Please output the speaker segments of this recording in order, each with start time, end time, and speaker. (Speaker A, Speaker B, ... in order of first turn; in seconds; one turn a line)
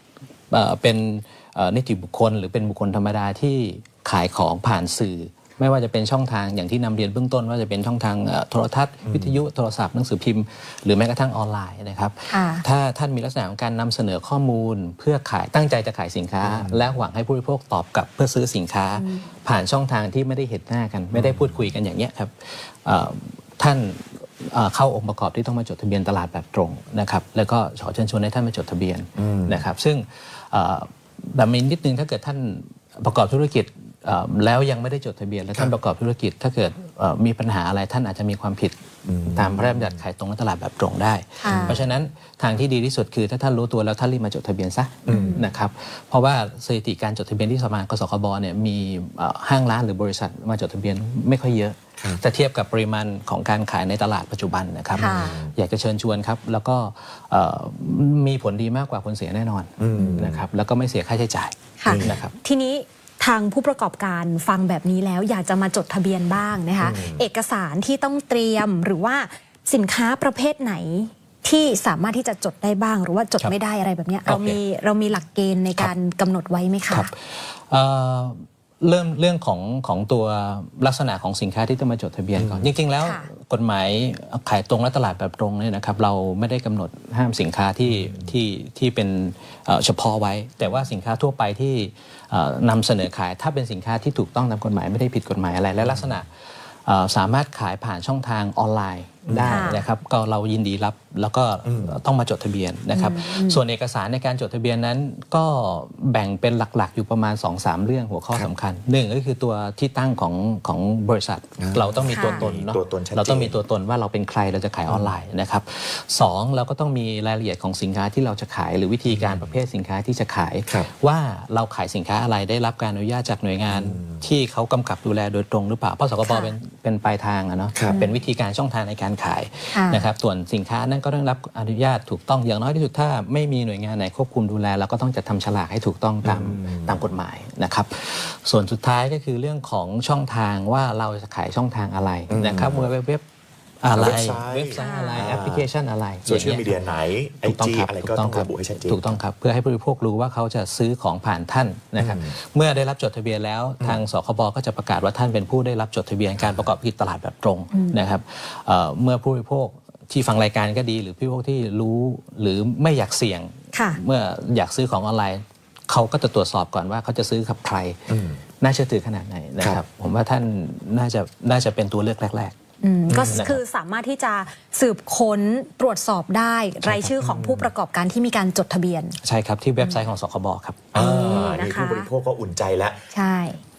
Speaker A: 0.5-62.3
Speaker B: 9.0-9.4
Speaker C: 12.3-12.6
Speaker B: 16.4-17.0
Speaker C: 19.0-19.2
Speaker B: 21.1-21.6
Speaker B: 29.1-29.6
Speaker B: 39.0-40.0
Speaker C: 41.4-41.8
Speaker B: 41.4-41.9
Speaker B: 45.0-45.4
Speaker C: 45.1-45.4
Speaker B: 54.9-55.5
Speaker C: 55.0-55.4
Speaker B: 59.8-60.5
Speaker C: 61.8-77.1
Speaker B: 61.9-62.2
Speaker B: 66.8-67.2
Speaker A: 74.2-74.6
Speaker A: 76.9-96.3
Speaker B: 82.3-82.7
Speaker C: 83.0-83.3
Speaker B: 87.8-88.3
Speaker B: 95.8-96.2
Speaker A: 96.8-143.2
Speaker B: 99.2-99.8
Speaker C: 99.5-99.8
Speaker B: 101.6-102.0
Speaker C: 102.9-103.6
Speaker B: 111.6-113.6
Speaker C: 112.1-112.4
Speaker B: 114.9-115.1
Speaker B: 119.0-119.5
Speaker B: 123.7-124.2
Speaker C: 126.2-126.5
Speaker C: 129.7-130.0
Speaker B: 136.2-137.0
Speaker B: 142.3-142.9
Speaker A: 143.8-146.8
Speaker B: 143.9-145.7
Speaker C: 144.8-145.3
Speaker B: 146.2-149.0
Speaker A: 147.4-168.0
Speaker B: 152.0-152.3
Speaker B: 156.4-156.7
Speaker C: 163.7-164.0
Speaker B: 168.1-168.4
Speaker A: 168.6-172.6
Speaker C: 172.8-179.2
Speaker B: 173.1-173.5
Speaker A: 173.3-173.6
Speaker A: 176.8-177.1
Speaker B: 177.2-177.7
Speaker A: 179.2-181.0
Speaker B: 180.9-183.0
Speaker C: 180.9-182.1
Speaker C: 183.1-183.6